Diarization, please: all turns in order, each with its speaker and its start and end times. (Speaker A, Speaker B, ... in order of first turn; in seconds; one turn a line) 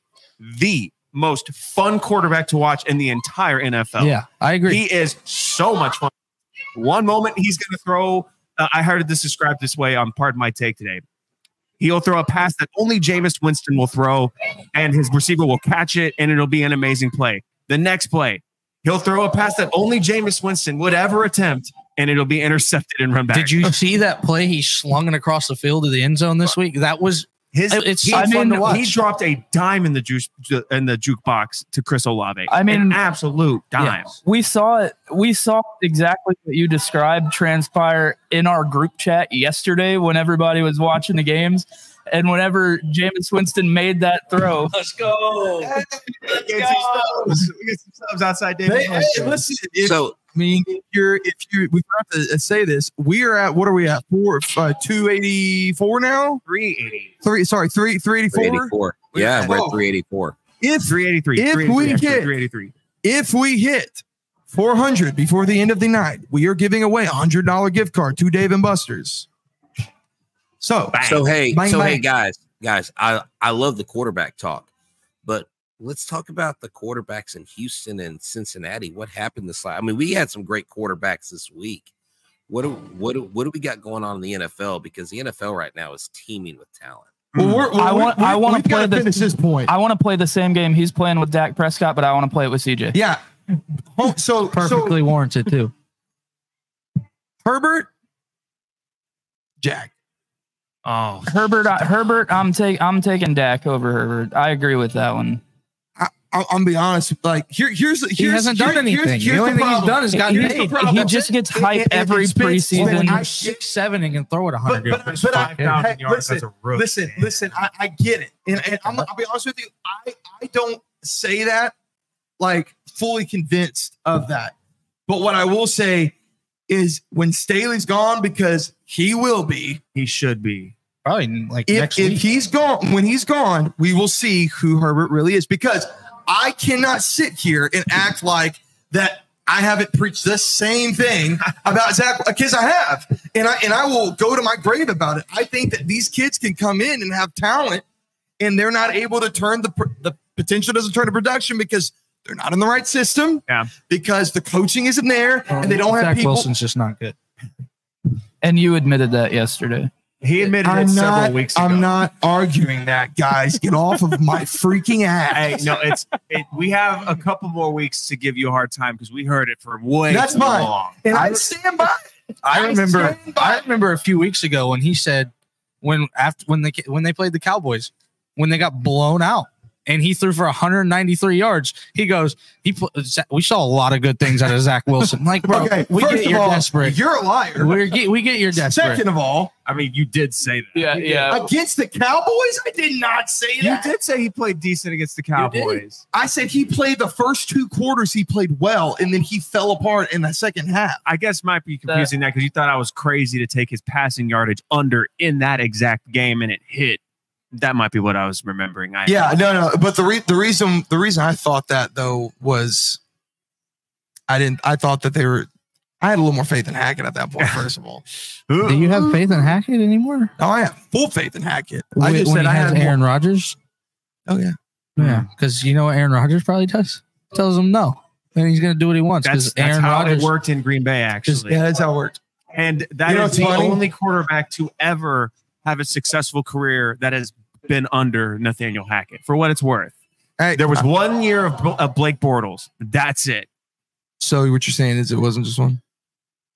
Speaker A: 0.4-6.1
Speaker B: 4.0-4.8
Speaker A: 6.7-11.0
Speaker A: 11.8-23.7
Speaker B: 23.3-28.9
Speaker A: 27.5-34.1
Speaker C: 28.1-28.8
Speaker D: 28.4-28.8
Speaker C: 32.5-33.0
Speaker C: 34.2-44.7
Speaker A: 45.4-49.4
Speaker D: 45.6-47.4
Speaker D: 48.6-56.4
Speaker E: 49.8-50.1
Speaker A: 56.4-57.1
Speaker D: 57.2-59.8
Speaker E: 58.3-60.4
Speaker D: 60.6-62.3
Speaker A: 60.8-62.7
Speaker D: 63.0-69.3
Speaker D: 70.6-72.0
Speaker A: 70.9-71.3
Speaker E: 71.0-74.7
Speaker E: 75.2-81.9
Speaker E: 82.5-87.1
Speaker A: 87.3-87.7
Speaker D: 87.4-89.7
Speaker C: 87.8-93.0
Speaker D: 92.9-93.2
Speaker D: 93.9-95.0
Speaker B: 94.5-95.7
Speaker D: 97.4-97.9
Speaker D: 99.6-99.9
Speaker A: 100.8-101.5
Speaker C: 101.3-105.4
Speaker D: 106.0-113.6
Speaker B: 108.2-111.3
Speaker C: 110.2-113.2
Speaker B: 112.7-115.7
Speaker D: 114.7-121.7
Speaker A: 115.0-117.4
Speaker D: 122.4-124.5
Speaker D: 125.1-126.1
Speaker D: 126.7-129.8
Speaker A: 129.9-130.7
Speaker B: 131.0-132.2
Speaker D: 131.7-147.8
Speaker D: 148.4-156.5
Speaker B: 155.5-157.2
Speaker C: 158.4-159.9
Speaker A: 160.2-162.0
Speaker D: 160.6-165.8
Speaker A: 165.3-171.0
Speaker D: 170.1-173.7
Speaker B: 171.1-171.4
Speaker B: 172.4-175.3
Speaker B: 175.8-187.0
Speaker D: 185.4-188.0
Speaker B: 187.6-189.0
Speaker D: 188.5-189.5
Speaker A: 189.7-191.4
Speaker C: 190.7-191.4
Speaker D: 191.3-193.9
Speaker A: 193.6-196.0
Speaker B: 195.4-195.8
Speaker D: 196.1-201.0
Speaker A: 201.0-207.0
Speaker A: 207.5-209.4
Speaker D: 209.1-213.0
Speaker D: 214.3-215.5
Speaker D: 216.0-218.0
Speaker A: 217.4-217.7
Speaker A: 218.5-219.4
Speaker B: 218.6-220.3
Speaker D: 220.4-223.0
Speaker B: 221.9-223.6
Speaker D: 224.3-224.6
Speaker A: 225.0-225.3
Speaker B: 225.0-230.3
Speaker A: 229.2-231.6
Speaker D: 231.5-232.2
Speaker A: 232.5-239.9
Speaker D: 233.1-233.8
Speaker D: 240.4-240.9
Speaker A: 240.5-243.5
Speaker D: 244.2-245.8